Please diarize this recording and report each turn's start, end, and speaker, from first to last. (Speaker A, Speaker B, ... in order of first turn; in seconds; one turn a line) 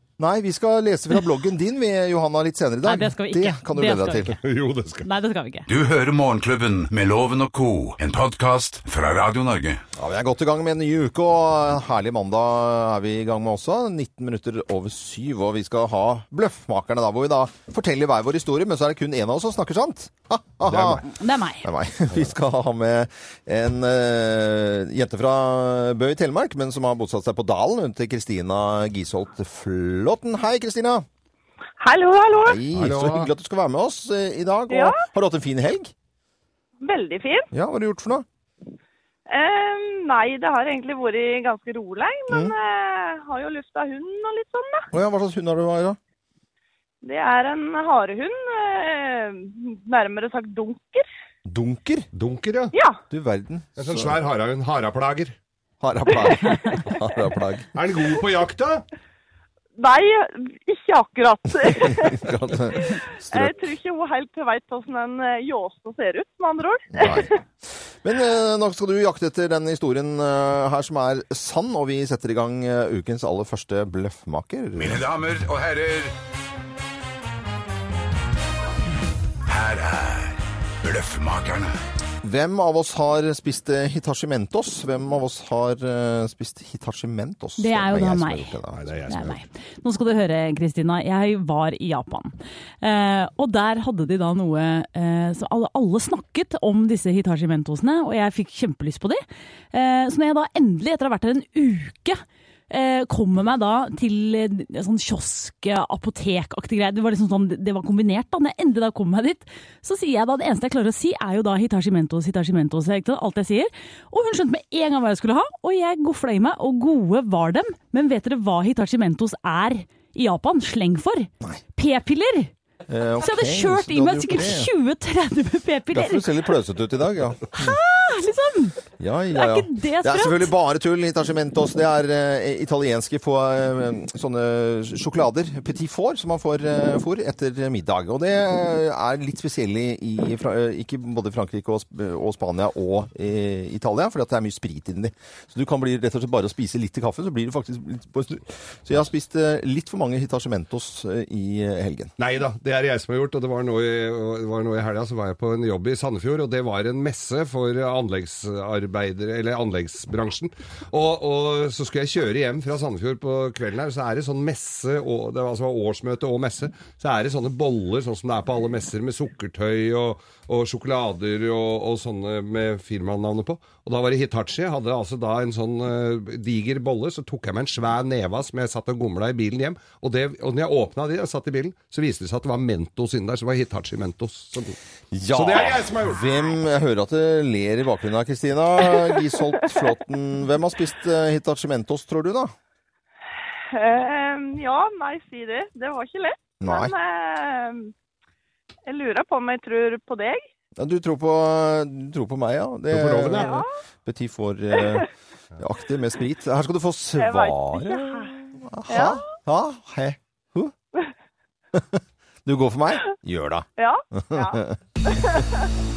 Speaker A: 0.2-4.4
Speaker B: 2.8-4.4
Speaker C: 4.3-5.0
Speaker B: 5.0-5.7
Speaker D: 5.7-9.8
Speaker A: 10.0-21.1
Speaker C: 20.6-21.0
Speaker B: 21.0-21.7
Speaker A: 21.6-31.1
Speaker E: 31.8-32.6
Speaker A: 32.3-35.9
Speaker C: 32.7-33.3
Speaker E: 34.7-35.0
Speaker E: 36.8-37.5
Speaker A: 37.5-38.2
Speaker E: 39.3-44.9
Speaker A: 44.9-46.0
Speaker E: 47.0-51.0
Speaker A: 51.4-52.1
Speaker C: 52.1-52.7
Speaker E: 52.7-53.0
Speaker A: 53.1-54.2
Speaker C: 53.8-55.3
Speaker A: 55.8-57.7
Speaker C: 57.7-58.8
Speaker E: 59.8-67.3
Speaker A: 61.8-63.6
Speaker A: 66.9-67.3
Speaker A: 68.0-75.0
Speaker D: 74.8-76.1
Speaker D: 79.5-81.8
Speaker A: 82.2-88.9
Speaker B: 87.6-88.5
Speaker C: 88.7-89.4
Speaker B: 89.1-122.5
Speaker A: 122.9-124.7
Speaker B: 123.2-126.4
Speaker A: 125.9-127.8
Speaker B: 127.5-128.8
Speaker A: 129.0-152.1
Speaker B: 129.3-130.5
Speaker C: 152.2-184.8
Speaker A: 185.1-192.5
Speaker C: 185.3-186.2
Speaker E: 193.7-197.9
Speaker A: 196.6-196.9
Speaker E: 198.8-200.4
Speaker A: 200.8-210.7
Speaker C: 202.9-203.6
Speaker E: 203.3-203.7
Speaker E: 204.8-205.0
Speaker E: 207.2-209.3
Speaker A: 211.7-214.8
Speaker E: 213.8-215.6